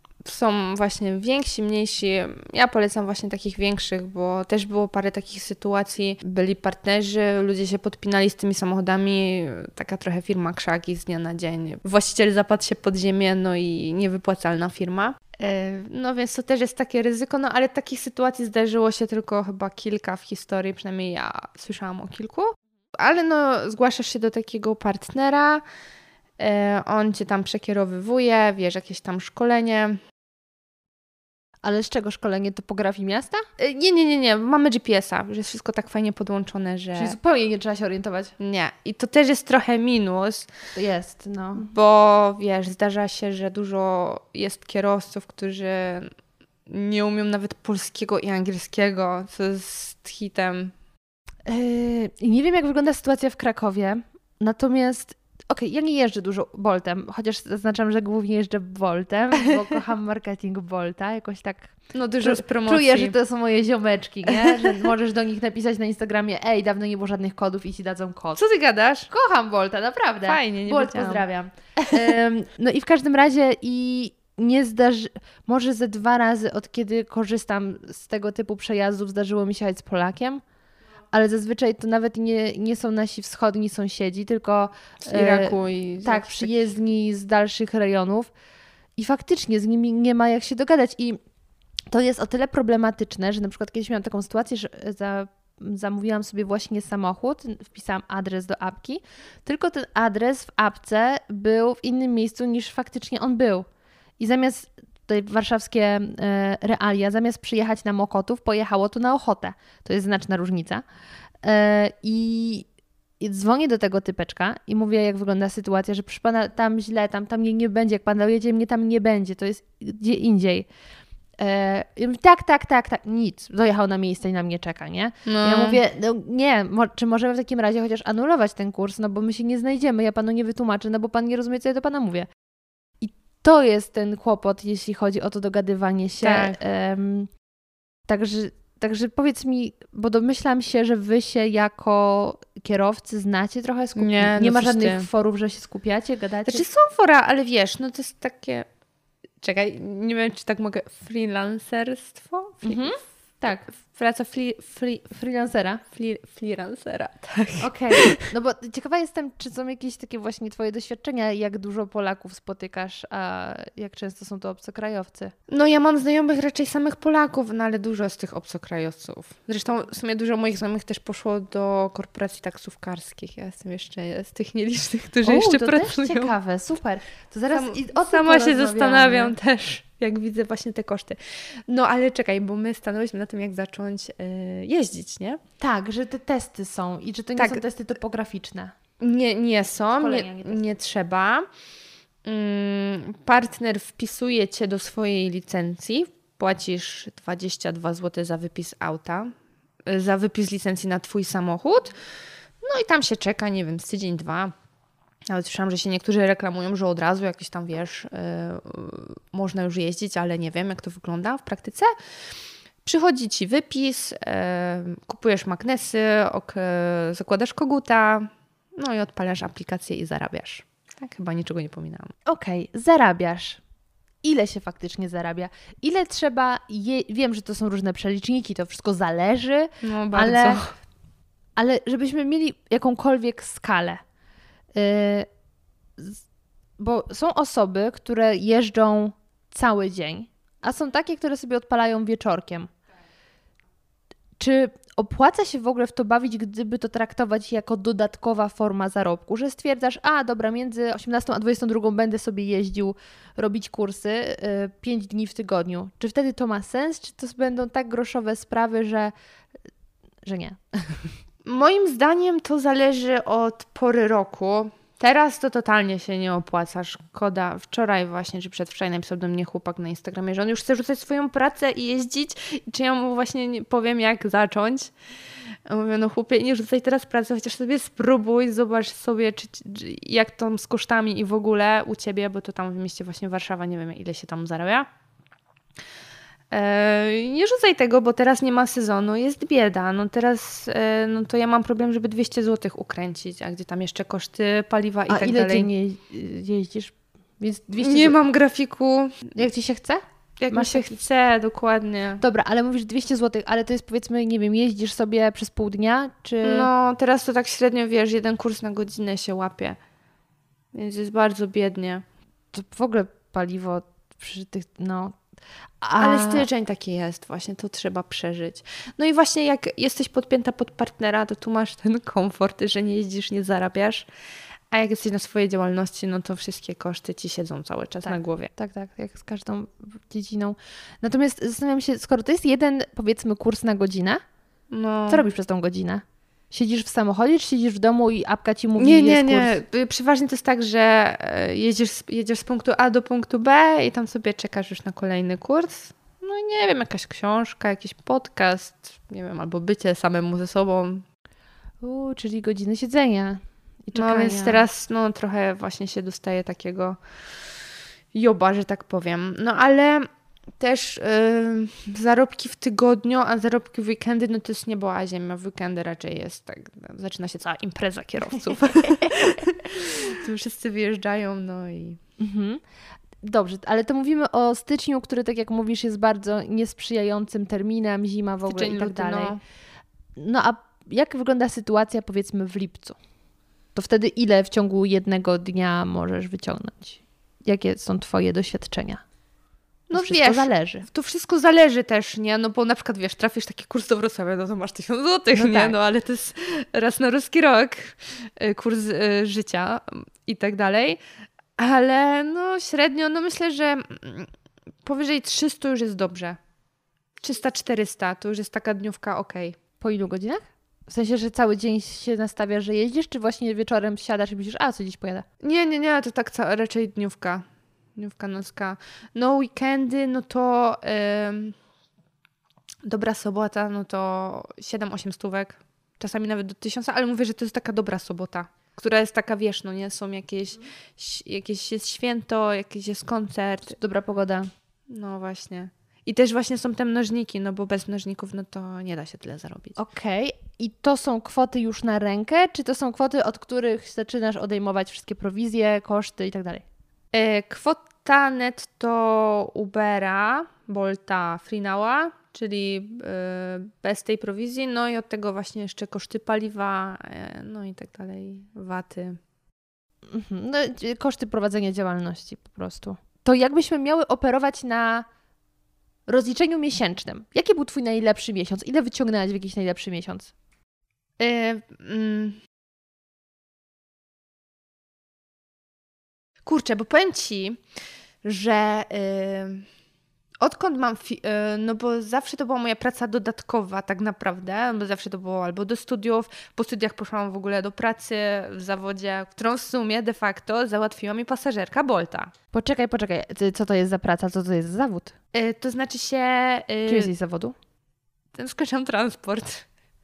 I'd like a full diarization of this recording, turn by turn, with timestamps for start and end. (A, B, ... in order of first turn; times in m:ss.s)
0:00.2-0:25.6 A
0:26.4-0:30.0 A
0:31.6-0:33.4 B
0:33.6-0:37.2 A
0:37.0-0:38.3 B
0:38.4-0:40.5 A
0:40.8-0:41.7 B
0:41.6-0:46.1 A
0:46.7-0:50.7 A
0:51.5-1:08.4 B
1:01.9-1:03.2 A
1:04.3-1:04.9 A
1:08.4-1:09.1 A
1:09.1-1:20.4 B
1:10.2-1:11.2 A
1:11.8-1:12.1 A
1:21.1-1:28.3 B
1:25.1-1:26.7 A
1:29.0-1:31.2 B
1:31.9-1:43.7 B
1:44.2-1:50.8 B
1:51.4-1:52.7 B
1:53.2-2:00.7 B
2:01.4-2:12.3 B
2:05.3-2:05.8 A
2:13.0-2:17.3 B
2:16.2-2:16.6 A
2:18.1-2:26.6 B
2:24.0-2:25.1 A
2:26.5-2:28.7 A
2:29.4-2:32.9 A
2:32.6-2:33.6 B
2:33.7-2:35.1 A
2:35.1-2:35.8 B
2:35.9-2:38.3 A
2:37.6-2:45.3 B
2:45.5-2:56.3 A
2:55.2-2:59.4 B
2:57.5-3:05.4 A
3:05.6-3:08.7 B
3:07.4-3:07.6 A
3:09.0-3:11.5 A
3:10.0-3:10.8 B
3:12.2-3:19.3 A
3:19.9-3:22.0 A
3:22.6-3:24.5 A
3:25.3-3:31.9 A
3:32.8-3:42.1 A
3:42.3-3:43.6 B
3:44.2-3:50.6 B
3:49.8-3:50.7 A
3:51.6-3:54.0 B
3:54.8-3:55.3 B
3:56.8-4:02.7 B
4:04.4-4:19.1 B
4:20.2-4:21.1 B
4:21.4-4:34.9 A
4:35.7-4:44.9 A
4:46.5-4:55.7 A
4:55.1-4:58.2 B
4:57.8-4:59.4 A
4:59.4-5:00.9 B
5:00.4-5:02.2 A
5:02.2-5:06.7 B
5:06.4-5:09.8 A
5:10.7-5:12.0 A
5:12.5-5:15.2 B
5:15.8-5:16.5 B
5:16.0-5:24.1 A
5:24.7-5:28.5 A
5:28.0-5:34.2 B
5:34.7-5:35.2 A
5:35.1-5:39.6 B
5:38.8-5:51.0 A
5:51.8-5:54.6 B
5:54.0-5:57.0 A
5:58.1-6:12.0 A
6:12.2-6:12.6 B
6:13.2-6:19.4 B
6:18.5-6:19.4 A
6:20.2-6:23.0 B
6:23.8-6:29.0 B
6:29.9-6:41.0 A
6:29.9-6:30.9 B
6:35.3-6:35.8 B
6:41.6-6:44.3 A
6:44.8-6:46.4 A
6:47.2-6:49.6 A
6:49.8-6:55.3 B
6:55.4-6:57.4 A
6:58.0-7:01.6 A
7:02.8-7:13.8 A
7:13.8-7:14.5 B
7:14.9-7:19.8 A
7:19.8-7:26.6 B
7:27.1-7:39.2 A
7:40.1-7:45.1 B
7:46.1-7:50.3 B
7:51.2-7:52.4 A
7:56.4-7:57.6 A
7:58.2-7:59.7 A
8:00.4-8:12.3 A
8:12.5-8:15.2 B
8:15.3-8:17.1 A
8:16.9-8:17.5 B
8:18.3-8:19.7 A